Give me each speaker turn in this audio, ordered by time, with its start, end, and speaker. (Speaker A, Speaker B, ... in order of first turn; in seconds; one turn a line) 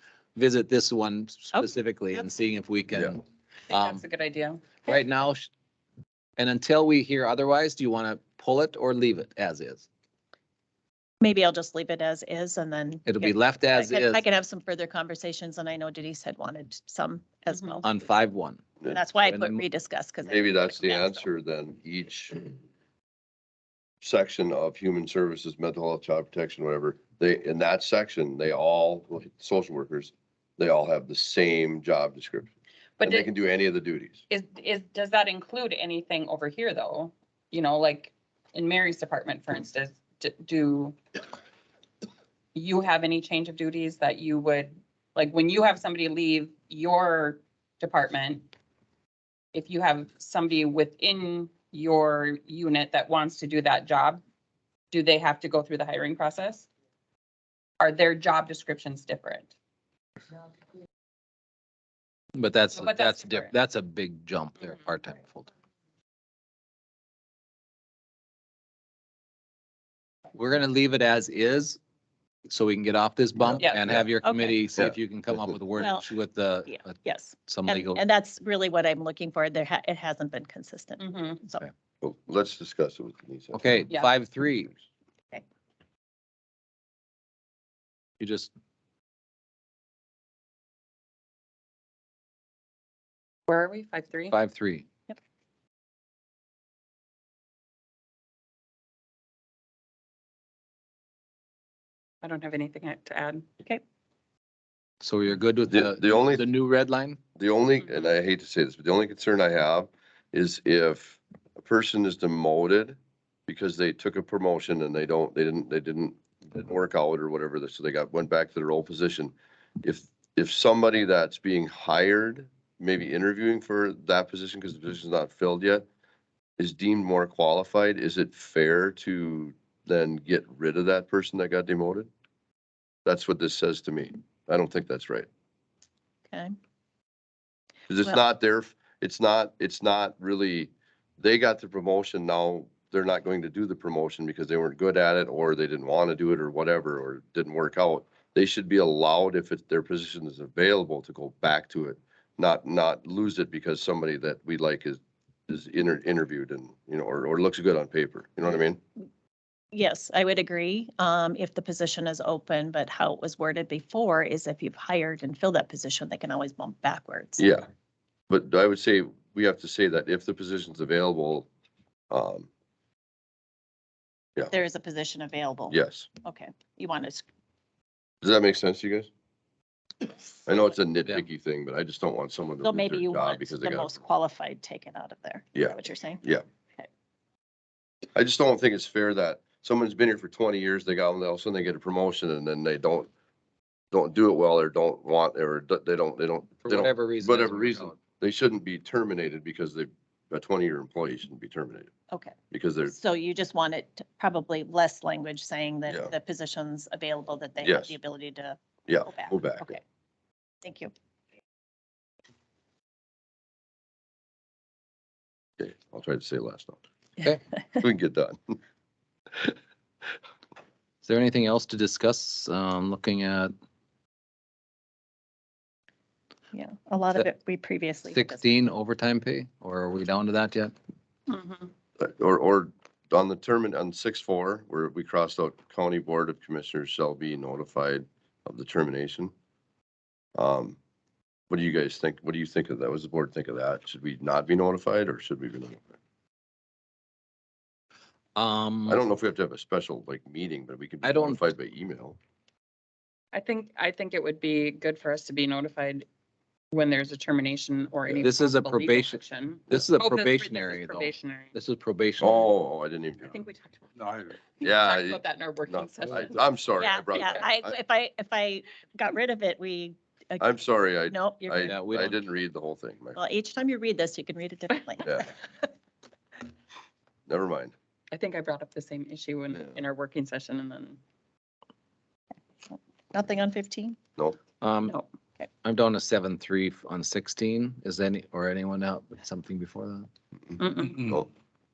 Speaker A: 0.4-4.0
Speaker B: 1.5-2.3
Speaker C: 3.7-4.8
Speaker A: 4.8-5.5
Speaker A: 6.4-9.9
Speaker B: 11.2-17.9
Speaker A: 13.1-14.2
Speaker A: 17.8-19.6
Speaker B: 18.9-21.2
Speaker D: 20.2-22.5
Speaker D: 24.0-34.2
Speaker C: 33.0-33.3
Speaker C: 34.3-41.0
Speaker C: 42.5-48.5
Speaker C: 49.5-54.2
Speaker C: 54.9-56.7
Speaker C: 57.8-59.5
Speaker A: 62.4-65.5
Speaker C: 62.7-63.5
Speaker A: 70.3-71.8
Speaker A: 72.5-76.9
Speaker D: 73.4-74.1
Speaker C: 73.6-73.9
Speaker B: 74.2-74.7
Speaker D: 74.8-75.4
Speaker B: 75.8-76.1
Speaker B: 76.7-81.7
Speaker A: 77.5-78.0
Speaker C: 81.0-81.4
Speaker D: 82.0-83.9
Speaker A: 83.5-84.7
Speaker A: 88.2-88.5
Speaker C: 93.5-94.4
Speaker A: 94.3-94.9
Speaker C: 102.2-103.5
Speaker A: 105.0-107.2
Speaker D: 105.7-106.5
Speaker D: 107.4-125.8
Speaker D: 126.6-132.1
Speaker D: 133.1-135.3
Speaker D: 137.9-158.8
Speaker B: 159.7-167.5
Speaker D: 167.4-167.7
Speaker D: 168.3-171.5
Speaker D: 172.1-172.5
Speaker B: 174.5-177.2
Speaker D: 175.7-176.1
Speaker D: 178.2-179.1
Speaker D: 180.5-183.9
Speaker B: 182.6-186.2
Speaker D: 185.6-186.4
Speaker D: 188.2-193.1
Speaker D: 193.9-201.9
Speaker A: 196.6-198.0
Speaker B: 202.1-209.8
Speaker D: 202.5-202.9
Speaker D: 205.9-206.1
Speaker D: 207.6-207.9
Speaker D: 208.9-209.8
Speaker B: 210.6-210.9
Speaker D: 215.6-216.8
Speaker B: 217.6-217.8
Speaker D: 217.8-218.6
Speaker A: 221.0-223.5
Speaker B: 226.5-228.5
Speaker A: 228.1-230.7
Speaker C: 231.3-231.7
Speaker D: 232.0-239.3
Speaker D: 240.4-240.8
Speaker D: 241.5-245.9
Speaker A: 248.4-249.0
Speaker D: 248.9-252.2
Speaker A: 251.0-251.4
Speaker C: 253.3-256.1
Speaker C: 256.7-261.5
Speaker A: 258.1-262.5
Speaker D: 262.2-263.4
Speaker C: 263.2-266.4
Speaker D: 264.6-267.8
Speaker B: 266.8-271.8
Speaker D: 270.4-273.2
Speaker A: 271.7-272.2
Speaker B: 273.2-275.3
Speaker D: 275.0-275.3
Speaker D: 277.3-277.7
Speaker C: 278.1-281.0
Speaker B: 282.7-284.0
Speaker A: 284.6-284.9
Speaker A: 285.6-290.1
Speaker C: 290.6-291.2
Speaker D: 291.0-291.3